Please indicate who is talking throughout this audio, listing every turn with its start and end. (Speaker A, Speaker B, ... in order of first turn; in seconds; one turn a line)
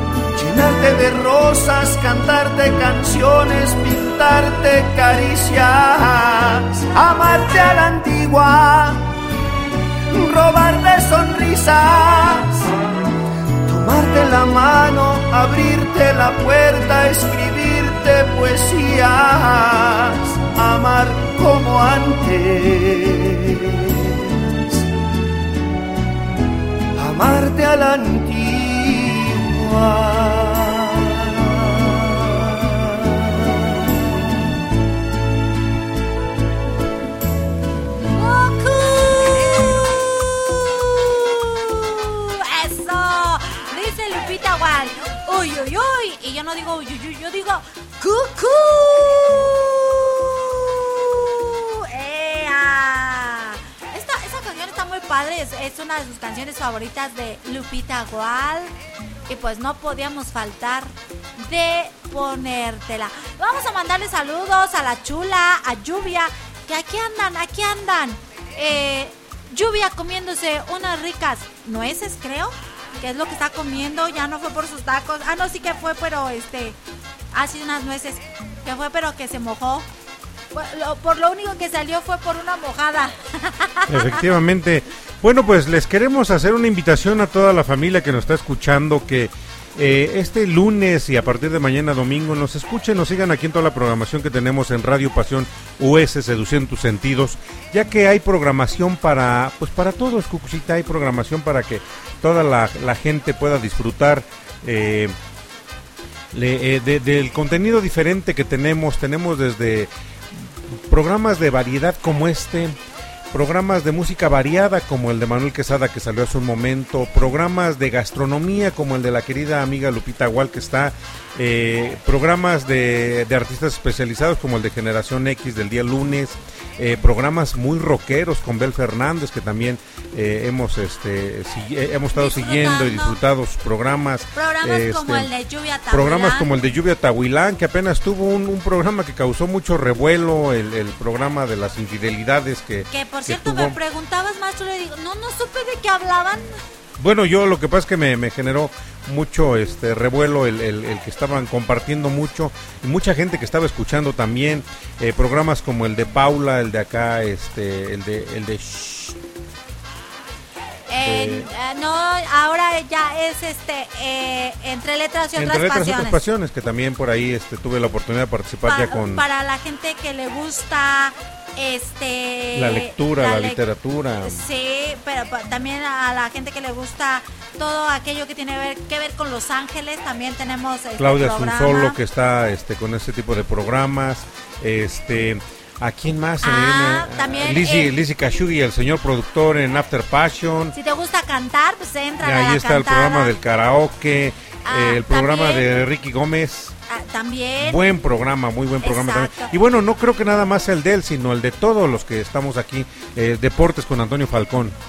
Speaker A: 0.3-9.1
Speaker A: 10.1-12.6
Speaker A: 13.7-24.8
Speaker A: 27.0-33.4
Speaker B: 38.2-58.7
Speaker B: 59.3-76.8
Speaker B: 77.3-79.9
Speaker B: 80.5-84.2
Speaker C: 83.9-105.2
Speaker C: 106.3-112.8
Speaker C: 113.3-135.3
Speaker B: 132.1-133.2
Speaker B: 134.3-136.5
Speaker C: 135.9-143.8
Speaker B: 142.9-146.5
Speaker C: 147.0-159.2
Speaker B: 160.9-166.2
Speaker C: 161.0-161.5
Speaker C: 165.4-169.2
Speaker B: 168.7-173.6
Speaker C: 172.6-174.4
Speaker B: 174.2-182.0
Speaker C: 181.0-190.8
Speaker B: 186.4-188.0
Speaker B: 190.8-193.3
Speaker C: 192.2-196.7
Speaker B: 194.7-195.8
Speaker B: 196.9-197.8
Speaker C: 197.6-204.8
Speaker B: 198.8-199.5